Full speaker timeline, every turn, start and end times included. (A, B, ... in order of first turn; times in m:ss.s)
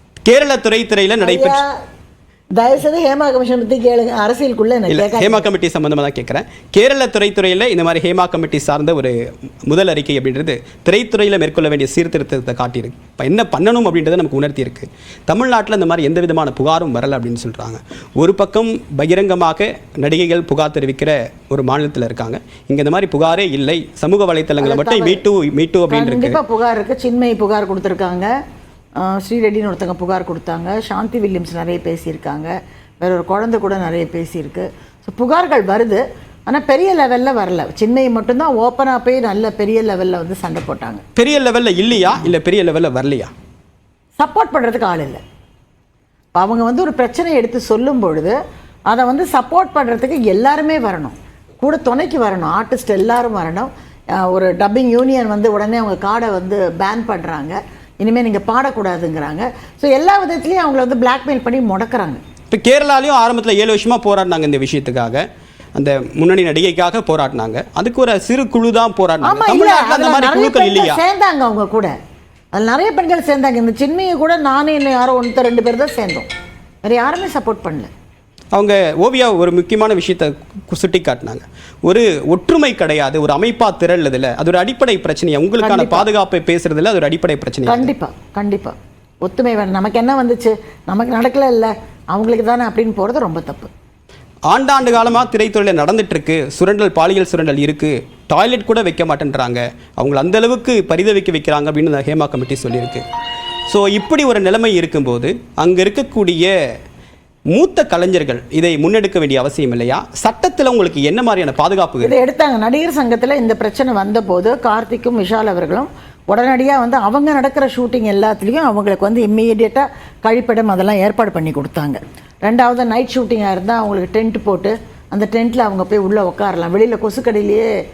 0:00.3-0:01.6 A
0:01.2-0:01.7 B
0:02.6-0:05.5 B
0:04.9-0:26.4 A
0:24.6-0:25.2 B
0:25.9-0:28.3 B
0:29.0-0:41.0 B
0:41.2-0:43.3 A
0:44.2-0:45.2 B
0:46.4-0:48.4 B
0:48.9-1:02.2 B
1:02.5-1:05.2 A
1:05.8-1:11.0 A
1:09.2-1:11.9 B
1:12.5-1:16.3 B
1:16.8-1:17.9 B
1:18.5-1:27.9 A
1:25.6-1:26.1 B
1:27.7-1:33.7 B
1:34.5-1:43.0 A
1:43.7-1:46.5 A
1:47.5-1:52.1 A
1:52.0-2:07.7 B